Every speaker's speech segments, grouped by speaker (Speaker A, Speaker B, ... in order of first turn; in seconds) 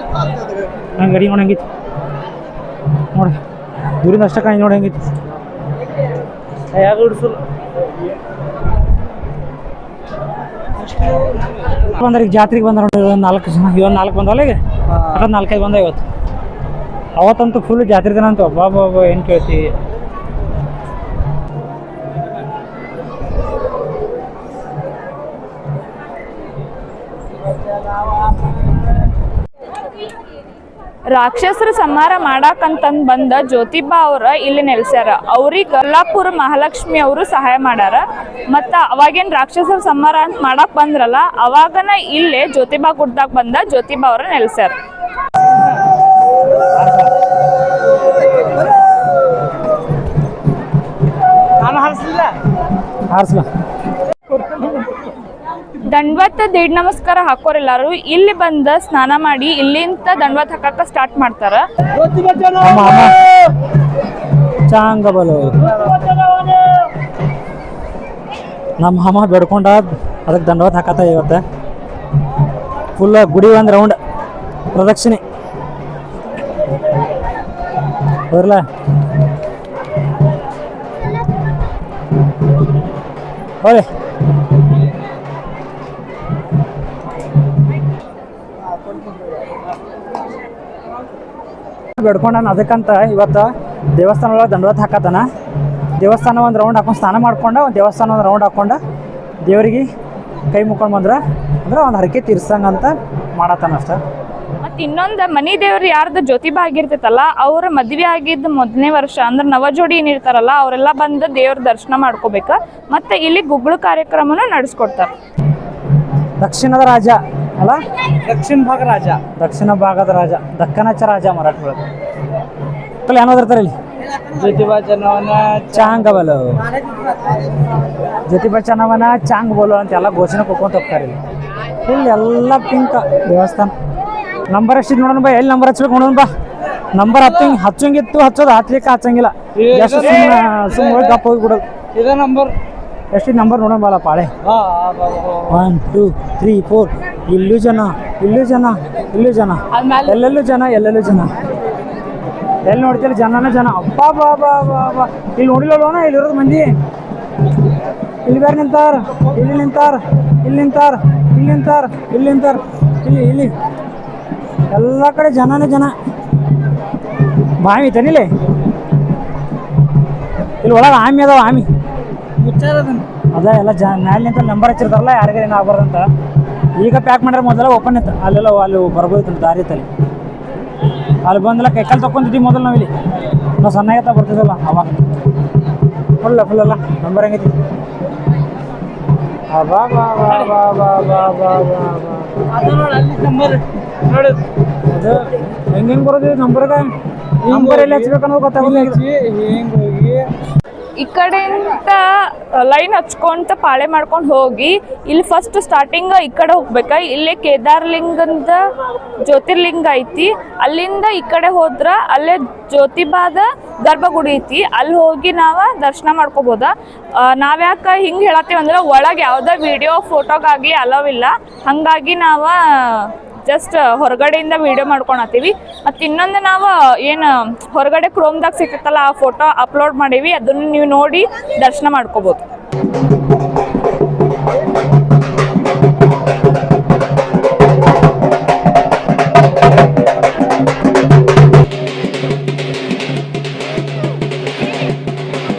Speaker A: 1.0-1.6, 3.1-3.4, 4.0-5.0, 12.0-14.6, 15.1-16.0, 17.1-19.7, 46.8-47.1, 53.1-53.5, 62.6-63.1, 64.7-65.6, 68.8-71.4, 73.0-74.0, 74.7-75.2, 78.3-78.6, 83.6-83.9, 92.0-95.2, 96.0-98.8, 99.4-99.9, 100.5-104.0, 116.4-117.8, 119.4-121.8, 123.0-123.7, 125.7-126.6, 128.3-131.2, 131.8-133.7, 134.5-136.3, 136.9-141.6, 143.1-144.3, 145.5-151.3, 152.6-156.7, 158.2-163.5, 164.7-165.9, 167.6-168.3, 170.6-171.7, 173.3-176.1, 176.8-179.9, 181.2-182.9, 183.6-185.0, 186.2-187.5, 189.5-192.4, 194.9-196.8, 197.5-199.0
Speaker B: 6.7-7.4, 10.8-11.9, 14.9-15.3, 51.6-52.3, 62.0-63.0, 118.2-119.2, 124.2-126.2, 137.2-137.6, 139.6-141.2, 141.9-142.5, 144.4-145.6, 149.7-150.2, 172.4-173.1, 192.5-194.4, 197.4-200.2
Speaker C: 31.1-44.7, 55.8-61.6, 104.6-115.1, 201.0-208.6, 209.2-232.4